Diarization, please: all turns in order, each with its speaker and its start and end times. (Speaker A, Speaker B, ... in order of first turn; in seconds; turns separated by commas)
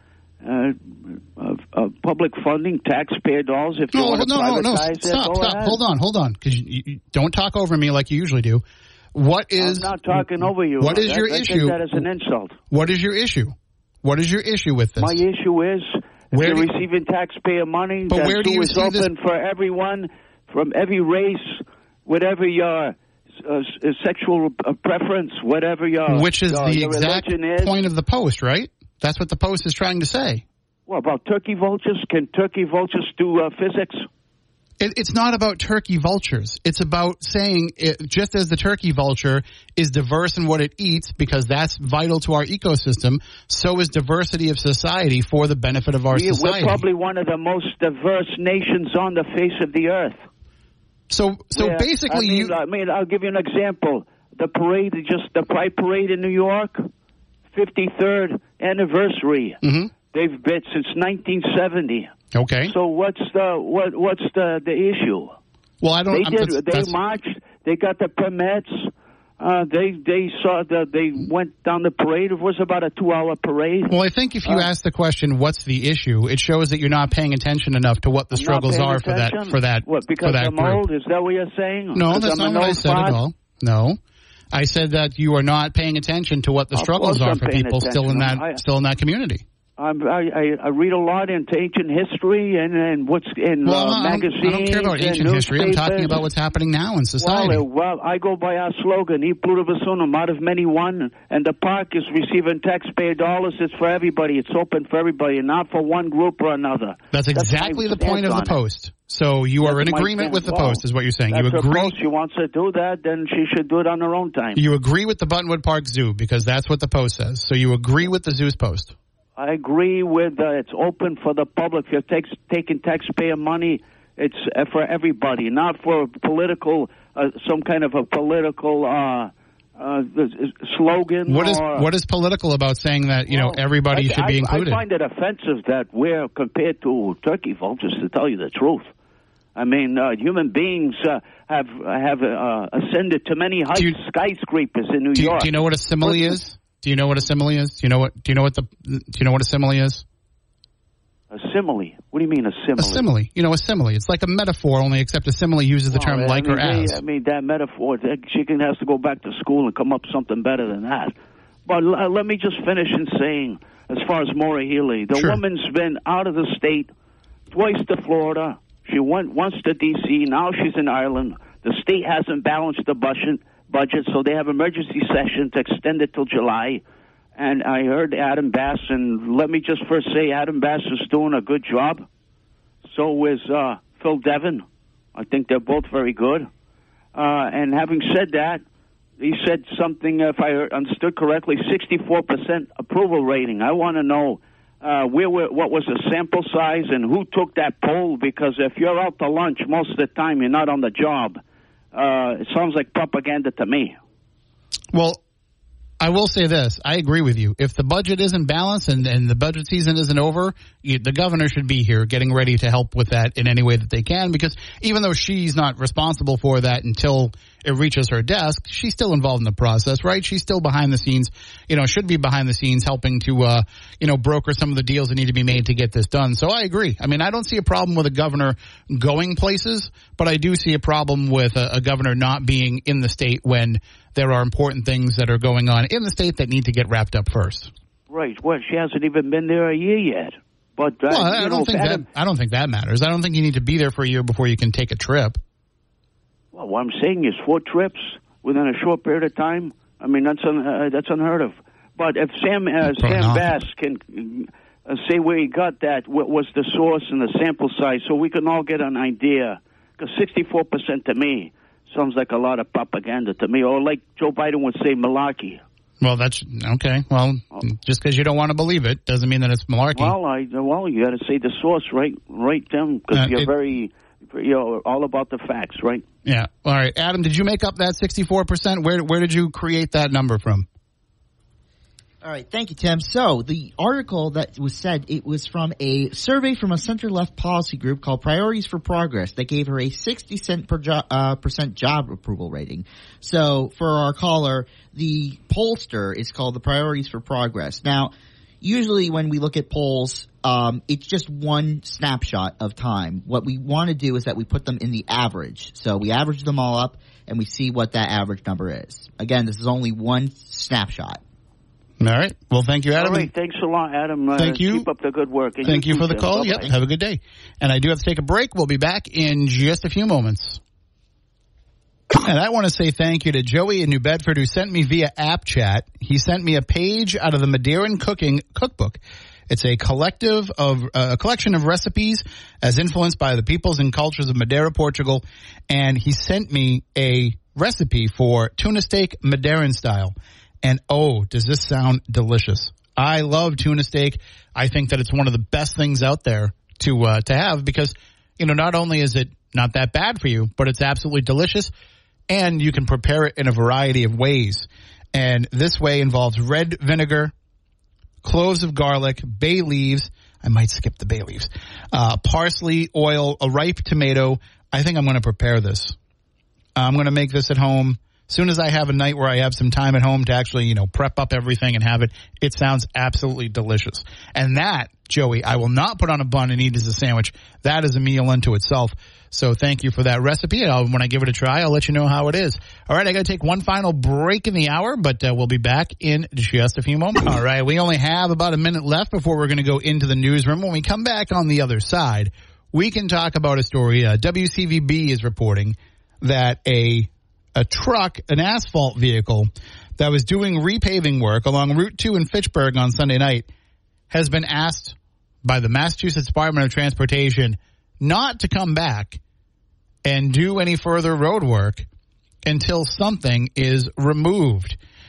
Speaker A: 0.4-5.8, Speaker B: 3.9-12.0, Speaker A: 9.6-12.6, Speaker B: 12.7-15.2, Speaker A: 15.0-27.8, Speaker B: 16.3-16.7, Speaker B: 18.1-19.1, Speaker B: 26.1-30.4, Speaker A: 30.9-34.0, Speaker B: 34.8-46.8, Speaker A: 46.1-50.2, Speaker B: 51.1-52.5, Speaker A: 51.5-56.9, Speaker A: 57.5-59.6, Speaker B: 59.6-59.9, Speaker A: 60.1-62.1, Speaker B: 62.3-62.7, Speaker A: 62.7-65.4, Speaker B: 65.8-66.9, Speaker A: 66.1-73.9, Speaker B: 73.9-80.8, Speaker A: 78.3-83.2, Speaker B: 81.9-84.0, Speaker B: 84.5-89.4, Speaker A: 86.7-88.6, Speaker A: 89.8-96.2, Speaker B: 93.6-97.6, Speaker A: 97.2-108.6, Speaker B: 107.1-111.9, Speaker A: 109.6-114.6, Speaker B: 114.5-118.9, Speaker A: 119.4-131.9, Speaker B: 131.2-134.8, Speaker A: 133.3-138.9, Speaker A: 139.6-146.4, Speaker B: 145.1-150.0, Speaker A: 151.3-153.0, Speaker B: 152.8-157.0, Speaker A: 155.9-161.1, Speaker A: 161.7-166.9, Speaker A: 167.5-176.8, Speaker A: 177.4-182.1, Speaker A: 182.9-186.5, Speaker A: 187.1-188.6, Speaker A: 189.2-201.4, Speaker A: 201.9-203.9, Speaker B: 204.9-205.2, Speaker B: 206.0-237.7, Speaker A: 238.1-242.0, Speaker B: 241.1-245.4, Speaker A: 246.5-265.6, Speaker B: 252.9-253.5, Speaker B: 266.0-270.1, Speaker A: 269.9-276.0, Speaker B: 273.1-273.5, Speaker B: 276.2-280.6, Speaker C: 282.2-311.2, Speaker B: 312.0-313.3, Speaker A: 312.9-316.7, Speaker B: 314.4-314.9, Speaker B: 315.6-320.6, Speaker B: 322.1-351.7, Speaker B: 352.3-357.3, Speaker B: 358.2-365.9, Speaker B: 366.8-403.5, Speaker B: 404.1-409.2, Speaker B: 410.0-411.9, Speaker B: 412.4-414.8